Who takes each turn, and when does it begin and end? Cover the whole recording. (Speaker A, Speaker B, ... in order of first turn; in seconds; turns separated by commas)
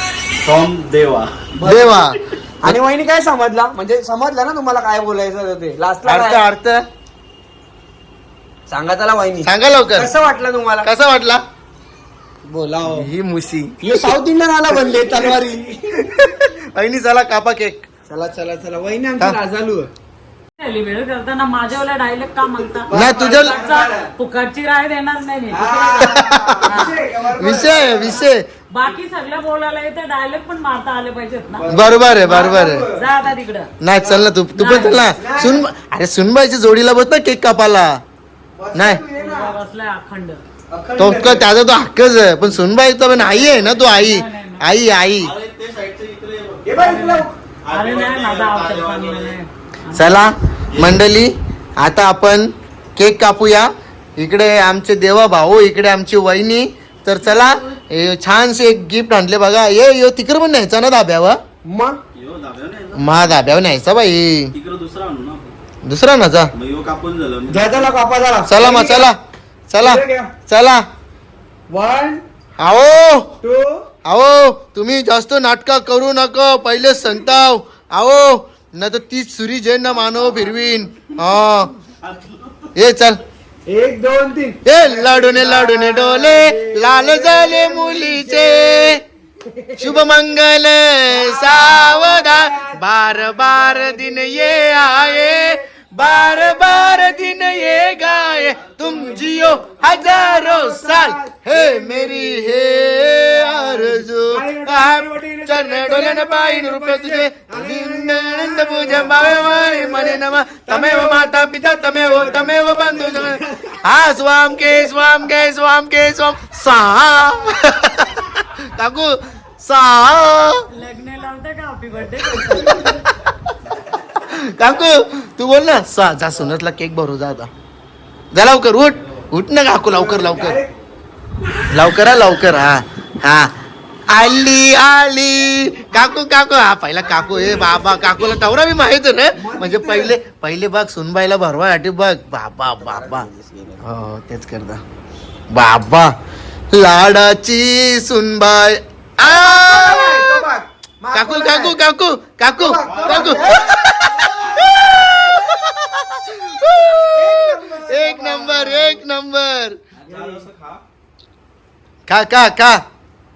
Speaker A: 0.4-1.5, Speaker B: 1.6-2.0, Speaker C: 1.6-2.8, Speaker B: 2.6-6.4, Speaker C: 6.0-6.8, Speaker B: 8.7-10.9, Speaker C: 9.4-10.1, Speaker C: 10.8-11.4, Speaker B: 12.4-13.1, Speaker C: 12.8-13.8, Speaker B: 13.8-16.2, Speaker C: 14.9-15.3, Speaker C: 15.9-17.9, Speaker B: 18.1-19.9, Speaker D: 20.6-27.0, Speaker B: 22.8-24.1, Speaker C: 22.9-23.6, Speaker B: 25.5-28.2, Speaker C: 26.0-26.7, Speaker C: 27.4-28.4, Speaker D: 28.7-31.6, Speaker B: 31.6-33.1, Speaker C: 31.7-32.9, Speaker D: 32.2-33.7, Speaker C: 33.8-38.0, Speaker B: 34.0-34.3, Speaker D: 34.5-35.1, Speaker B: 35.1-35.7, Speaker B: 38.5-39.6, Speaker C: 38.7-39.0, Speaker D: 39.1-40.4, Speaker B: 40.7-41.5, Speaker C: 41.0-45.3, Speaker D: 43.8-44.7, Speaker A: 45.2-46.7, Speaker B: 46.6-47.4, Speaker D: 46.8-50.2, Speaker A: 47.6-49.4, Speaker C: 49.9-61.4, Speaker A: 50.7-51.0, Speaker B: 61.6-62.0, Speaker A: 62.1-63.4, Speaker C: 62.9-64.5, Speaker A: 64.5-65.5, Speaker C: 65.8-66.5, Speaker A: 66.5-68.0, Speaker B: 67.5-69.1, Speaker C: 68.5-70.8, Speaker B: 69.8-70.3, Speaker B: 71.7-72.2, Speaker C: 72.6-73.3, Speaker B: 73.4-73.9, Speaker C: 74.0-81.7, Speaker A: 82.0-82.8, Speaker C: 82.7-83.2, Speaker B: 83.7-90.1, Speaker C: 84.7-89.0, Speaker C: 89.8-120.6, Speaker B: 91.1-113.8, Speaker A: 98.5-100.2, Speaker B: 114.5-115.2, Speaker B: 117.3-117.5, Speaker D: 120.7-123.0, Speaker C: 122.4-123.3, Speaker C: 124.3-127.5, Speaker C: 128.3-130.6, Speaker A: 128.9-129.3, Speaker B: 129.8-130.7, Speaker A: 130.7-131.0, Speaker B: 131.5-132.0, Speaker C: 131.7-133.5, Speaker C: 134.1-143.3, Speaker B: 137.1-138.2, Speaker B: 139.3-140.2, Speaker B: 142.8-143.9, Speaker C: 143.8-144.8, Speaker C: 145.5-146.1, Speaker C: 146.7-150.4, Speaker B: 149.2-151.8, Speaker C: 151.1-159.8, Speaker B: 152.5-154.7, Speaker A: 152.8-153.7, Speaker B: 157.1-159.0, Speaker A: 159.9-160.8, Speaker B: 160.1-160.4, Speaker C: 162.1-162.8